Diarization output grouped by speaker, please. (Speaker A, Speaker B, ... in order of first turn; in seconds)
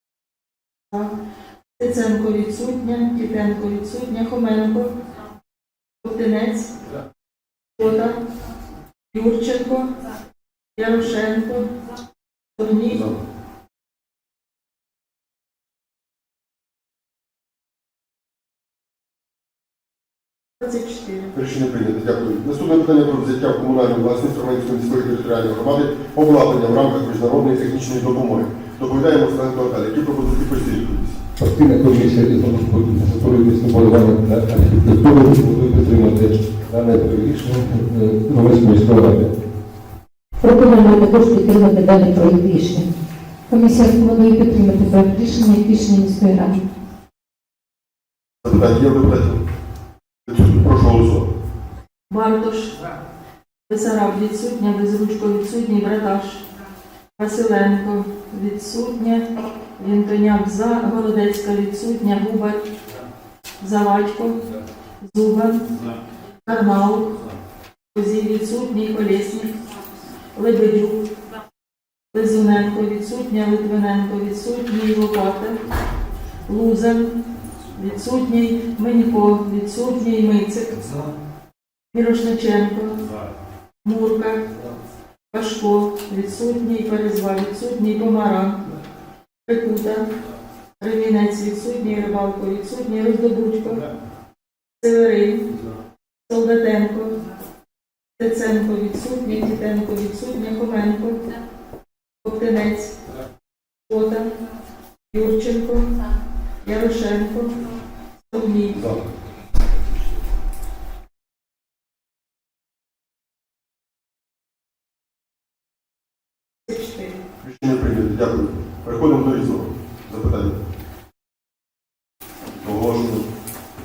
Speaker A: 1.8-4.9, 6.0-6.7, 7.8-8.2, 9.1-9.9, 10.8-11.7, 12.6-13.0, 20.6-21.3, 52.1-52.8, 53.7-56.4, 57.1-62.6, 63.6-64.4, 65.0-65.8, 66.5-67.2, 67.9-69.5, 70.3-71.0, 72.1-75.6, 76.5-77.1, 77.7-80.9, 81.9-83.0, 83.8-84.4, 85.3-88.6, 89.5-90.1, 90.8-93.8, 94.8-95.5, 96.3-97.2, 98.2-101.3, 102.2-102.9, 103.9-104.3, 105.1-105.9, 106.6-107.6, 108.2-108.8, 116.7-117.2
Speaker B: 12.9-13.2, 21.3-31.2, 48.4-49.4, 50.2-51.3, 108.7-109.0, 117.4-120.6, 122.6-123.3
Speaker C: 31.4-39.3
Speaker D: 40.4-42.9, 43.5-46.6